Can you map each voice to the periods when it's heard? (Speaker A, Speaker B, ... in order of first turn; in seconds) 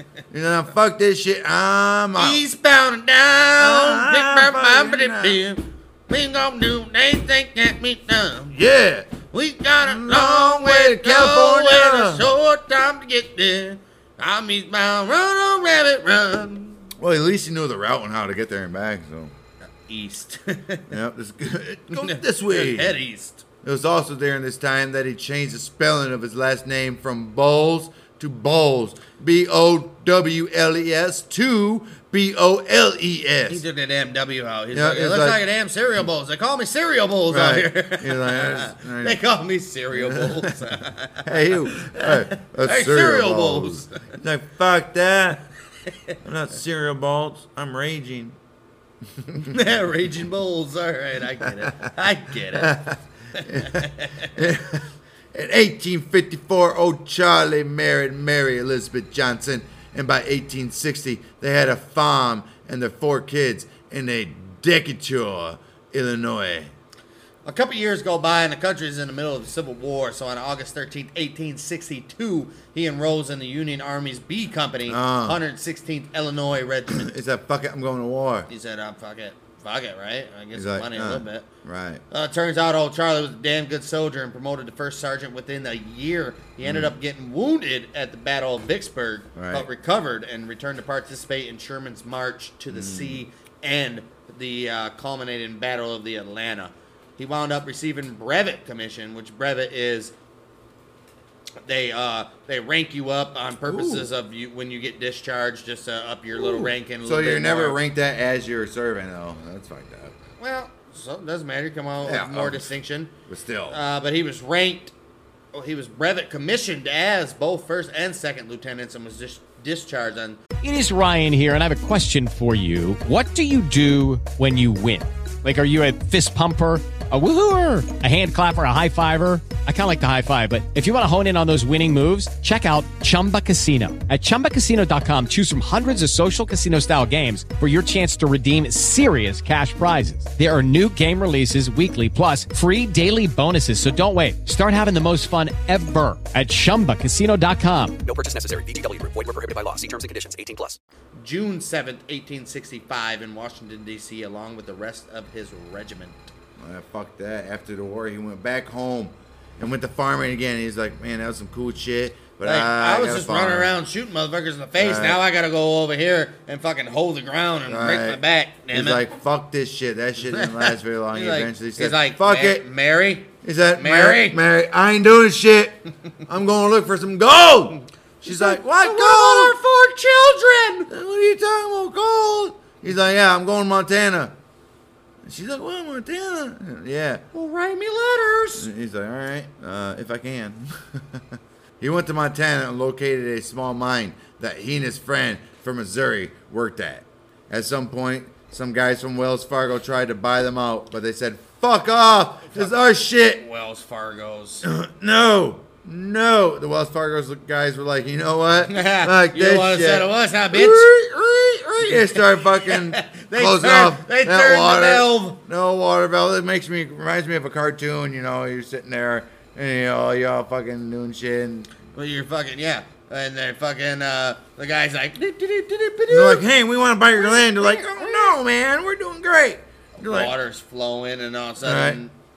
Speaker A: 0.3-2.4, 3.6-5.4, 8.5-9.2, 9.8-12.3, 17.0-19.3, 20.9-23.0, 23.6-33.6, 34.7-35.4, 37.3-39.2, 39.9-40.7, 41.2-45.5, 46.2-48.4, 49.2-49.5, 52.5-66.7, 74.9-75.4, 76.9-78.5, 80.5-82.0, 86.6-87.0, 89.4-89.7, 92.7-93.2, 103.7-104.1, 106.3-110.2, 112.0-113.8, 156.6-163.7, 164.8-165.2, 167.7-172.7, 173.4-179.6, 180.9-184.4, 185.2-187.2, 188.6-191.2, 191.8-203.4, 204.6-221.7, 226.1-230.3, 231.6-232.0
Speaker B: 2.2-8.6, 9.3-16.9, 19.6-20.9, 21.9-23.4, 33.5-44.1, 49.4-52.8, 53.4-54.3, 67.5-77.1, 78.5-81.5, 82.1-100.1, 101.7-107.8, 110.4-113.1, 113.7-114.9, 115.5-120.4, 151.2-156.2, 162.4-169.1, 170.3-174.4, 178.2-180.9, 187.3-188.7, 202.5-204.7, 208.6-210.9, 211.8-215.4, 221.9-226.5, 227.1-228.4, 230.0-232.1
Speaker C: 120.6-148.0
Speaker D: 148.0-150.8